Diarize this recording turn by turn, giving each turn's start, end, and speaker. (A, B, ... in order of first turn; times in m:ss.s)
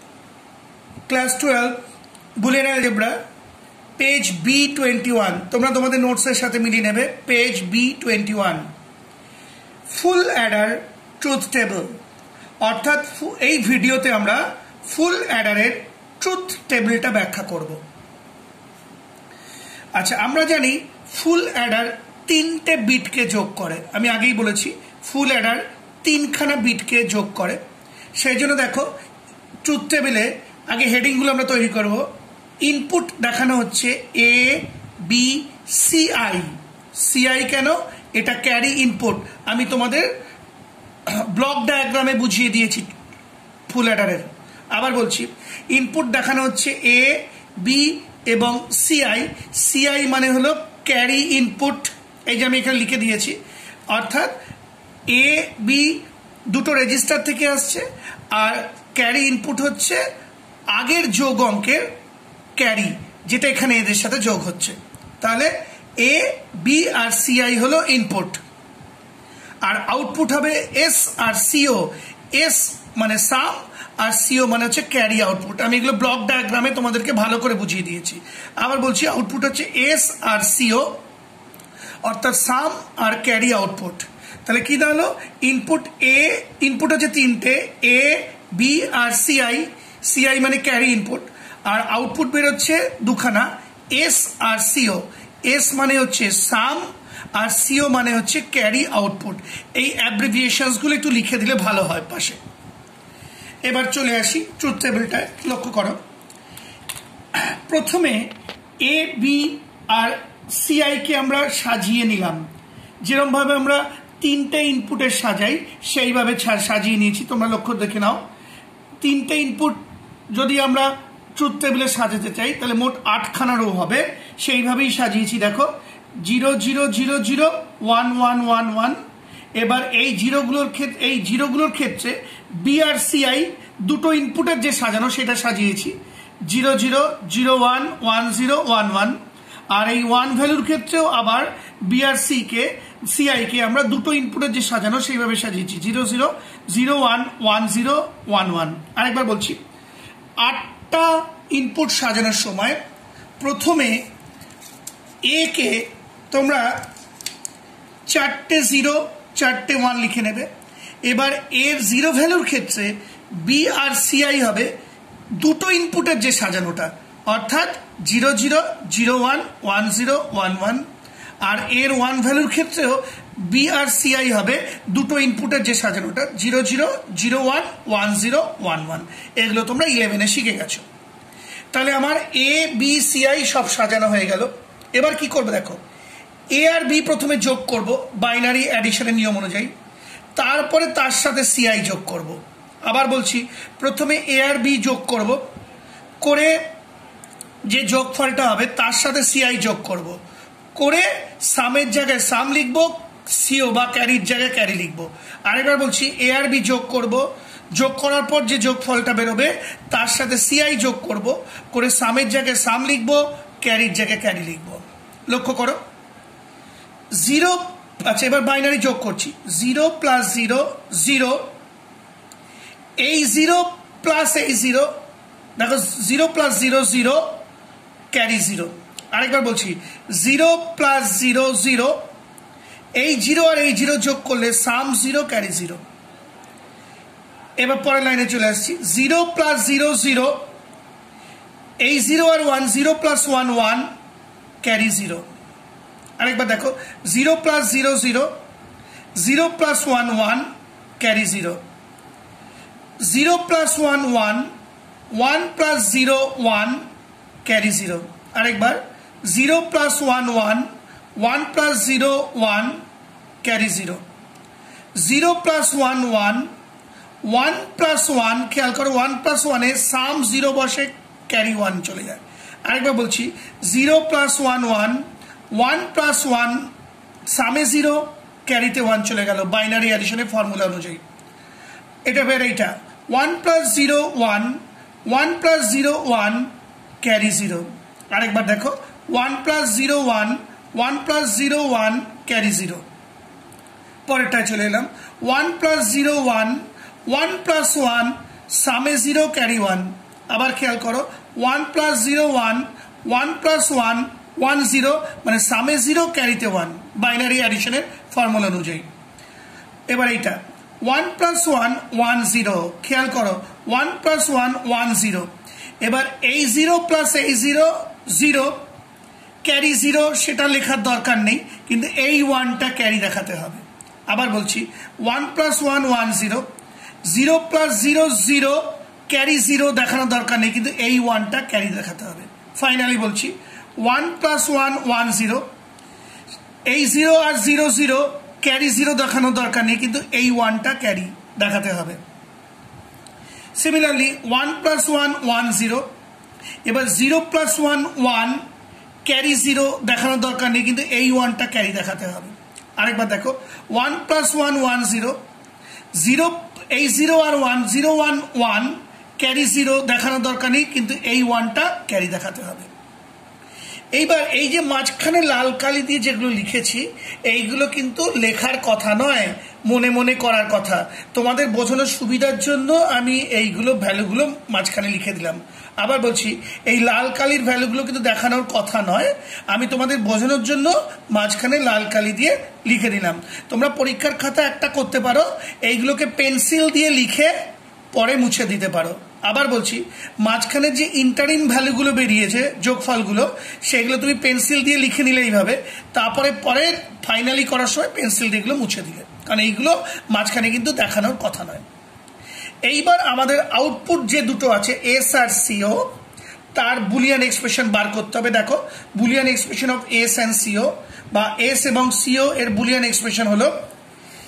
0:01.1-0:01.8 A
0:02.4-0:03.2 A
0:04.0-0:08.7 A
0:09.8-0:12.0 A
0:12.6-0:17.8 A
0:20.0-0:27.6 A
0:28.2-0:28.9 A
0:29.6-0:32.0 A
0:32.6-0:40.1 A
0:41.1-0:42.9 A
0:43.7-0:54.4 A
0:55.1-1:00.0 A
1:00.7-1:01.9 A
1:02.6-1:08.4 A
1:09.6-1:21.0 A
1:22.0-1:42.4 A
1:43.6-1:46.0 A
1:47.3-1:52.5 A
1:53.0-1:58.2 A
1:59.0-2:09.0 A
2:09.6-2:19.2 A
2:19.7-2:29.6 A
2:30.4-2:32.8 A
2:33.4-2:34.1 A
2:35.2-2:36.9 A
2:38.0-2:40.5 A
2:41.0-2:44.7 A
2:45.3-2:50.8 A
2:51.4-3:00.8 A
3:01.7-3:05.8 A
3:06.5-3:09.7 A
3:10.4-3:15.4 A
3:16.2-3:16.6 A
3:17.6-3:20.2 A
3:20.7-3:35.8 A
3:37.1-3:41.5 A
3:43.0-3:44.9 A
3:45.6-3:47.4 A
3:48.1-3:52.0 A
3:53.0-3:55.8 A
3:57.6-4:00.5 A
4:01.8-4:03.9 A
4:04.6-4:05.3 A
4:06.2-4:08.3 A
4:09.2-4:11.6 A
4:13.0-4:14.5 A
4:15.1-4:16.8 A
4:17.4-4:22.8 A
4:23.4-4:24.0 A
4:25.0-4:26.5 A
4:27.2-4:36.7 A
4:37.3-4:41.0 A
4:42.0-4:52.8 A
4:54.0-5:08.9 A
5:09.9-5:15.3 A
5:15.8-5:18.6 A
5:19.4-5:26.5 A
5:27.0-5:35.5 A
5:36.7-5:42.0 A
5:43.6-5:45.9 A
5:46.6-5:48.4 A
5:49.0-5:55.2 A
5:56.0-6:02.7 A
6:03.9-6:27.3 A
6:27.9-6:41.6 A
6:42.6-6:45.9 A
6:46.5-6:53.7 A